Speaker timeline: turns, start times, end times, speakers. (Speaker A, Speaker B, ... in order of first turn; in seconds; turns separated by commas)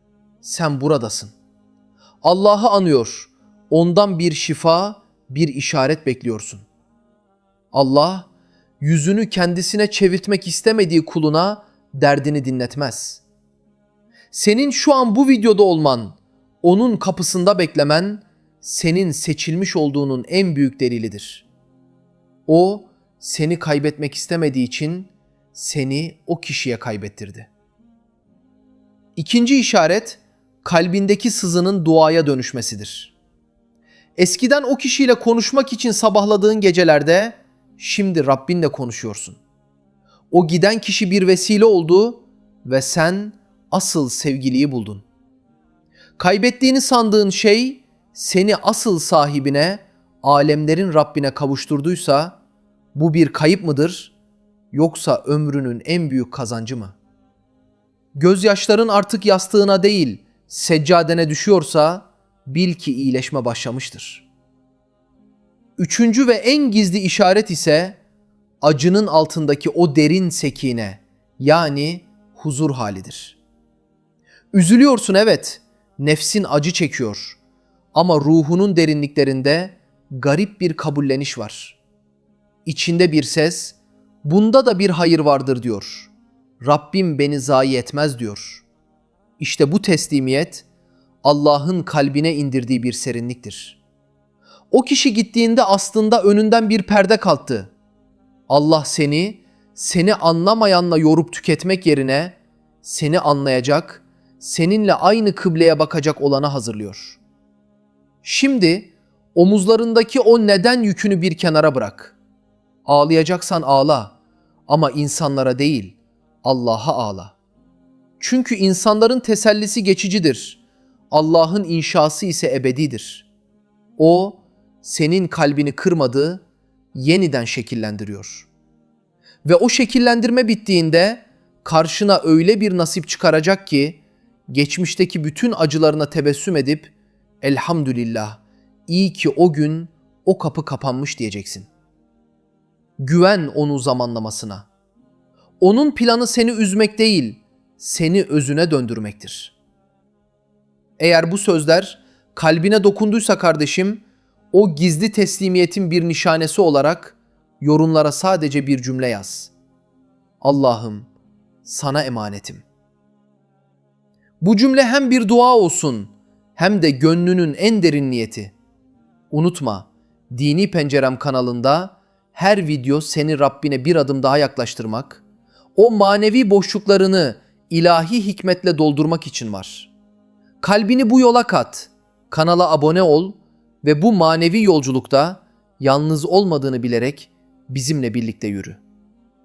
Speaker A: 0.4-1.3, Speaker A: 2.2-6.7, Speaker A: 7.7-8.3, Speaker A: 8.8-13.2, Speaker A: 14.3-21.5, Speaker A: 22.5-27.5, Speaker A: 29.2-33.1, Speaker A: 34.2-39.4, Speaker A: 40.3-45.0, Speaker A: 46.2-52.4, Speaker A: 53.0-54.1, Speaker A: 54.7-57.0, Speaker A: 58.1-64.3, Speaker A: 65.8-68.0, Speaker A: 68.6-73.4, Speaker A: 74.5-77.4, Speaker A: 77.9-81.8, Speaker A: 82.7-88.7, Speaker A: 89.4-90.7, Speaker A: 91.2-93.8, Speaker A: 94.7-97.7, Speaker A: 98.5-107.2, Speaker A: 108.2-112.2, Speaker A: 112.9-114.2, Speaker A: 114.7-117.3, Speaker A: 118.2-120.6, Speaker A: 121.1-123.3, Speaker A: 124.0-126.4, Speaker A: 126.9-128.5, Speaker A: 129.4-141.7, Speaker A: 143.0-144.7, Speaker A: 145.6-149.6, Speaker A: 151.0-159.5, Speaker A: 160.4-161.1, Speaker A: 161.6-162.7, Speaker A: 164.4-168.5, Speaker A: 169.3-175.2, Speaker A: 175.8-179.9, Speaker A: 180.6-188.8